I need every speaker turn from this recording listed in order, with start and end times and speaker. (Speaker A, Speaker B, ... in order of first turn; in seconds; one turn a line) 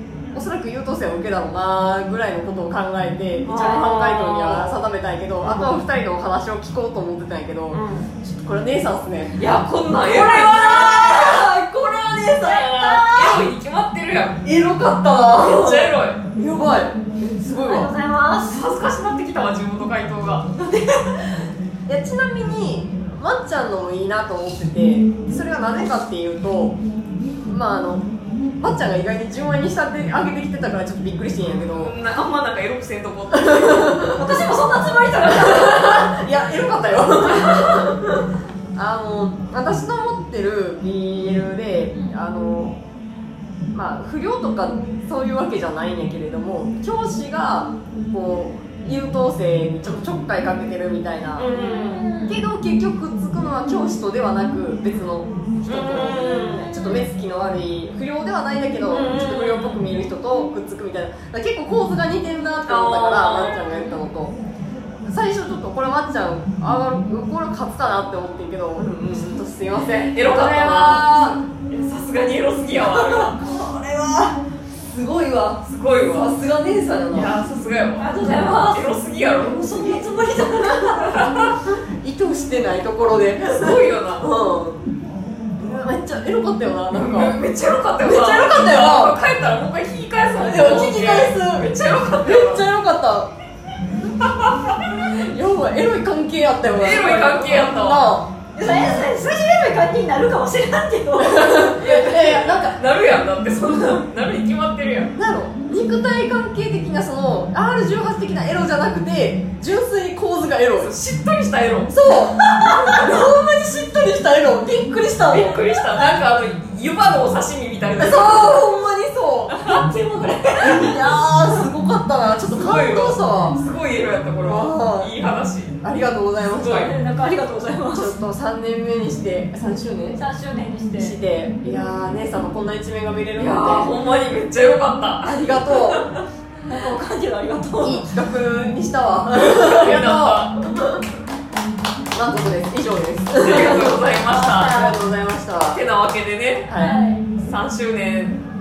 Speaker A: 0.3-9.5
Speaker B: 3.5-4.8
Speaker C: 3.5-3.8
Speaker B: 5.5-5.8
Speaker B: 7.7-8.1
Speaker B: 9.4-11.5
Speaker A: 10.0-13.4
Speaker B: 12.4-14.4
Speaker C: 12.4-13.4
Speaker A: 14.4-17.9
Speaker B: 15.3-16.2
Speaker C: 17.6-18.6
Speaker B: 18.5-21.1
Speaker A: 21.9-26.8
Speaker A: 27.4-28.1
Speaker A: 28.6-31.9
Speaker B: 31.8-34.1
Speaker A: 33.3-34.3
Speaker C: 34.1-36.1
Speaker A: 35.3-42.8
Speaker C: 37.4-37.8
Speaker A: 43.7-64.4
Speaker B: 51.4-52.1
Speaker C: 51.5-52.4
Speaker B: 55.7-56.8
Speaker B: 58.9-59.8
Speaker B: 62.7-63.8
Speaker A: 65.0-71.4
Speaker B: 70.1-73.4
Speaker A: 72.8-77.3
Speaker B: 75.7-76.4
Speaker B: 77.1-79.8
Speaker C: 78.0-81.3
Speaker B: 80.8-81.6
Speaker A: 81.7-84.8
Speaker B: 83.4-84.3
Speaker A: 85.6-87.4
Speaker B: 86.9-92.6
Speaker A: 88.0-89.2
Speaker A: 90.4-91.7
Speaker A: 92.2-93.3
Speaker B: 94.2-94.9
Speaker A: 95.0-99.0
Speaker B: 96.7-98.1
Speaker C: 98.5-102.0
Speaker A: 101.2-102.8
Speaker B: 101.8-105.1
Speaker A: 105.2-110.9
Speaker B: 110.8-112.0
Speaker A: 111.9-115.6
Speaker C: 112.3-113.1
Speaker B: 115.3-118.7
Speaker A: 118.0-119.6
Speaker C: 119.6-121.1
Speaker A: 120.6-123.6
Speaker B: 122.5-125.8
Speaker A: 124.4-125.1
Speaker A: 125.8-127.0
Speaker B: 126.6-126.9
Speaker C: 126.7-128.1
Speaker A: 127.9-130.2
Speaker C: 130.2-131.2
Speaker A: 131.0-133.9
Speaker B: 133.4-136.2
Speaker A: 135.2-136.1
Speaker C: 136.7-138.1
Speaker A: 137.8-141.0
Speaker B: 139.4-140.6
Speaker A: 142.1-144.0
Speaker B: 143.4-144.8
Speaker C: 143.6-145.0
Speaker A: 144.5-145.8
Speaker B: 145.7-146.7
Speaker A: 146.7-147.0
Speaker C: 146.7-147.2
Speaker B: 147.4-148.4